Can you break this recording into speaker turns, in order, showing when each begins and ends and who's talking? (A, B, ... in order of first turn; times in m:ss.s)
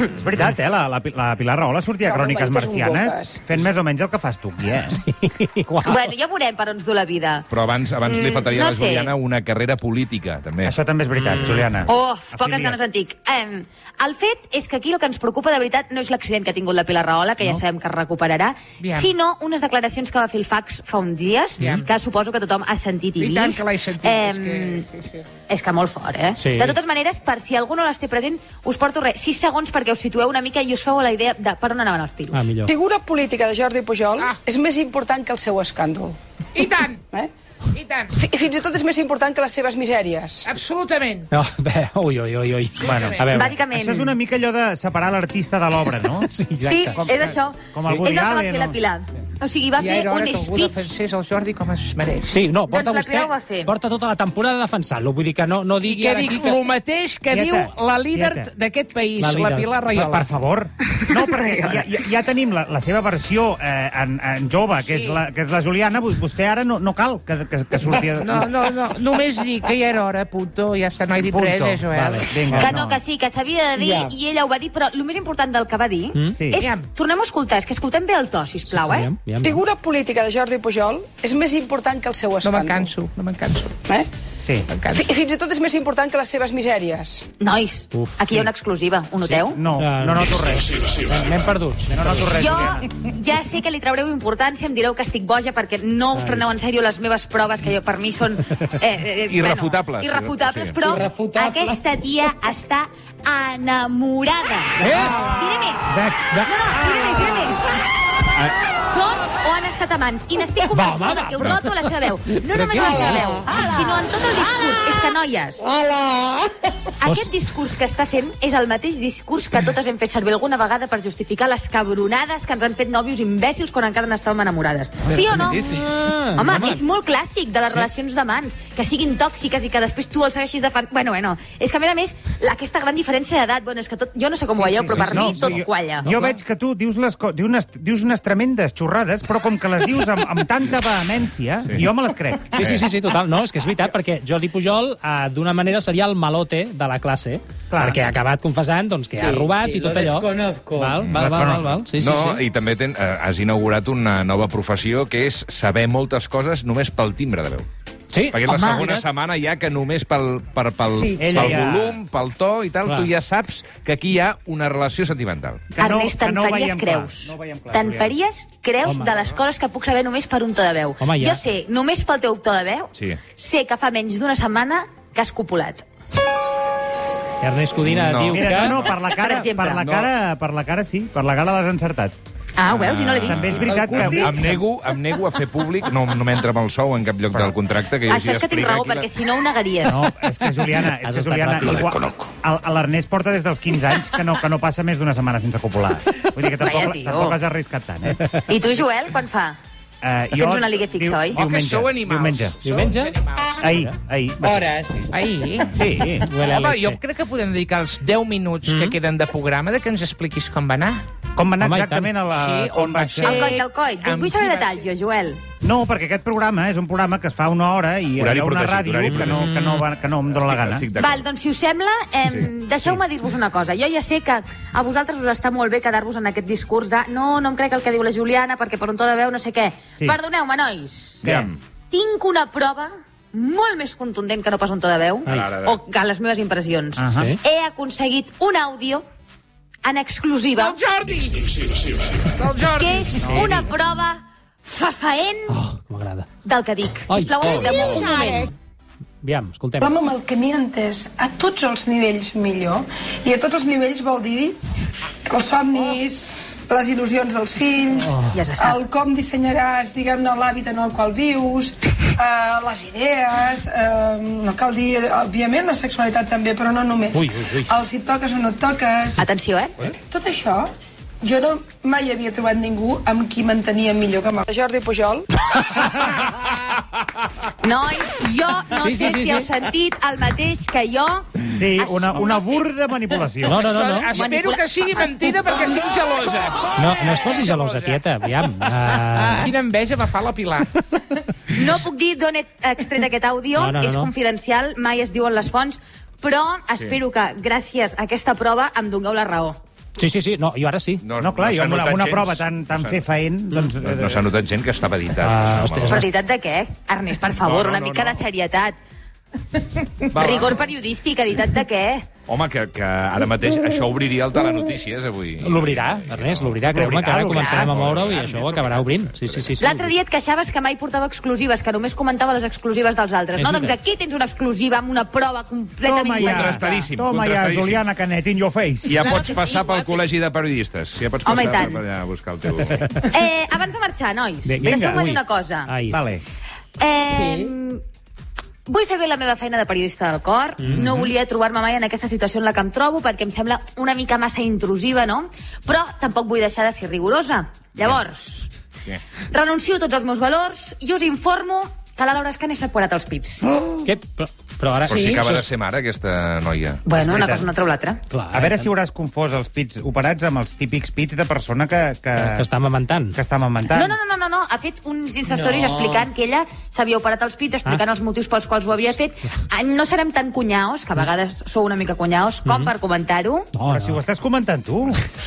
0:00.1-0:05.0 A
0:02.0-0:03.4 B
0:04.9-0:06.0 C
0:05.8-0:07.5 D
0:07.5-0:10.8 E
0:08.0-0:09.1 D
0:10.6-0:12.8 A
0:11.1-0:11.8 C
0:11.8-0:24.8 D
0:18.8-0:19.1 F
0:21.6-0:21.8 F
0:23.2-0:25.2 F
0:25.5-0:32.4 D
0:26.4-0:26.8 C
0:32.3-0:32.7 C
0:32.6-0:36.2 B
0:36.5-0:37.0 F
0:37.7-0:38.1 F
0:38.2-0:40.5 B
0:40.5-0:41.3 F
0:41.3-0:43.6 C
0:42.7-0:43.4 F
0:42.8-0:46.3 A
0:43.3-0:44.1 D
0:45.9-0:47.0 C
0:46.6-0:50.9 D
0:46.9-0:48.8 A
0:49.8-0:52.3 F
0:52.3-0:56.6 C
0:52.7-0:53.7 D
0:55.8-1:00.3 F
0:57.3-0:58.5 A
0:59.2-0:59.7 C
0:59.9-1:08.5 A
1:00.9-1:02.0 D
1:04.8-1:05.2 F
1:08.2-1:12.3 F
1:11.2-1:13.0 A
1:11.9-1:12.8 C
1:12.5-1:19.1 D
1:13.7-1:14.2 G
1:16.3-1:16.7 A
1:16.6-1:16.8 F
1:18.7-1:19.6 C
1:19.4-1:22.9 B
1:22.4-1:23.7 F
1:24.4-1:24.7 A
1:24.7-1:25.1 F
1:24.9-1:27.2 B
1:27.4-1:29.6 D
1:27.9-1:28.5 C
1:29.2-1:32.4 C
1:29.5-1:30.8 A
1:31.9-1:32.8 A
1:32.3-1:45.9 D
1:36.1-1:36.5 C
1:39.3-1:40.9 E
1:40.8-1:42.0 G
1:44.8-1:46.5 C
1:46.4-1:47.6 D
1:48.6-1:55.7 D
1:50.7-1:53.8 C
1:52.8-1:53.9 G
1:55.6-1:56.9 G
1:57.0-2:05.7 D
1:57.0-1:57.3 C
2:05.2-2:06.8 C
2:06.4-2:16.1 D
2:14.5-2:22.6 A
2:14.9-2:15.5 E
2:14.9-2:15.5 C
2:16.0-2:16.4 C
2:22.5-2:32.4 C
2:22.6-2:22.8 E
2:27.7-2:28.0 A
2:29.1-2:31.0 G
2:31.0-2:37.7 E
2:38.1-2:39.0 C
2:38.3-2:45.7 E
2:38.5-2:39.0 D
2:40.9-2:41.4 G
2:41.1-2:42.0 A
2:42.8-2:43.1 C
2:45.7-2:48.1 A
2:45.8-2:55.8 D
2:48.8-2:49.2 C
2:51.0-2:51.4 C
2:52.9-2:53.2 E
2:57.4-2:58.8 C
2:57.8-2:59.0 E
2:58.1-3:02.1 A
2:59.0-2:59.8 D
2:59.8-3:00.1 E
3:02.6-3:04.5 D
3:02.7-3:09.1 E
3:03.2-3:04.6 A
3:03.6-3:04.5 G
3:08.0-3:10.0 D
3:09.8-3:18.2 A
3:10.8-3:12.0 C
3:16.6-3:17.4 D
3:18.4-3:19.6 D
3:20.0-3:22.6 A
3:20.3-3:21.4 D
3:21.3-3:23.8 F
3:22.6-3:23.9 C
3:23.6-3:25.0 A
3:24.4-3:25.6 G
3:25.1-3:25.7 F
3:25.7-3:26.3 A
3:26.2-3:27.0 C
3:26.4-3:31.0 F
3:28.6-3:29.0 C
3:31.3-3:33.6 A
3:31.6-3:32.1 C
3:32.3-3:34.8 F
3:33.2-3:35.4 D
3:35.6-3:40.9 A
3:38.2-3:39.5 E
3:39.0-3:39.9 C
3:40.3-3:41.2 E
3:40.9-3:51.3 D
3:42.2-3:42.5 E
3:51.2-3:51.5 A
3:51.3-3:51.6 E
3:51.9-3:59.0 D
3:55.2-3:55.5 C
3:55.3-3:55.8 E
3:57.0-3:57.3 A
3:57.0-3:57.4 C
3:59.8-4:00.8 D
4:00.6-4:03.4 F
4:02.7-4:05.6 D
4:03.2-4:03.7 C
4:05.5-4:06.3 C
4:06.4-4:08.5 D
4:07.1-4:08.0 C
4:09.2-4:10.0 C
4:09.8-4:14.6 B
4:15.2-4:29.2 B
4:18.0-4:18.4 C
4:18.2-4:18.8 D
4:27.1-4:27.7 C
4:29.2-4:29.8 D
4:30.0-4:30.7 B
4:31.2-4:35.3 B
4:37.6-4:42.6 D
4:38.8-4:39.5 C
4:41.5-4:43.7 A
4:43.4-4:44.2 C
4:43.5-4:48.0 F
4:44.1-4:45.1 D
4:46.8-4:49.5 C
4:49.3-4:50.7 F
4:51.5-4:59.6 D
4:53.5-4:54.1 C
5:00.0-5:01.0 C
5:01.0-5:03.0 E
5:01.2-5:04.2 A
5:03.8-5:06.0 E
5:05.2-5:06.1 C
5:05.9-5:08.8 D
5:07.4-5:08.2 E
5:10.1-5:10.6 E
5:10.1-5:12.1 D
5:12.3-5:16.6 E
5:15.4-5:19.9 C
5:16.7-5:17.7 A
5:17.2-5:17.7 D
5:17.6-5:19.6 E
5:19.6-5:26.9 D
5:23.4-5:23.8 C
5:25.8-5:29.0 A
5:26.2-5:27.8 E
5:28.8-5:33.1 E
5:29.3-5:29.9 G
5:31.2-5:31.8 D
5:33.1-5:35.7 D
5:34.4-5:36.0 C
5:34.6-5:35.1 A
5:35.9-5:36.2 A
5:36.8-5:37.8 D
5:37.1-5:37.5 G
5:38.7-5:48.5 D
5:40.6-5:41.1 C
5:40.7-5:41.0 A
5:49.3-5:53.5 D
5:53.8-5:55.5 C
5:54.8-5:56.8 E
5:54.9-5:55.2 G
5:56.8-5:58.0 D
5:57.0-5:57.5 A
5:58.1-5:58.7 C
5:58.3-6:02.5 A
6:02.2-6:03.2 C
6:03.1-6:03.9 A
6:03.7-6:13.5 D
6:05.2-6:06.1 G
6:12.4-6:12.7 C
6:13.6-6:14.0 C
6:13.7-6:15.0 A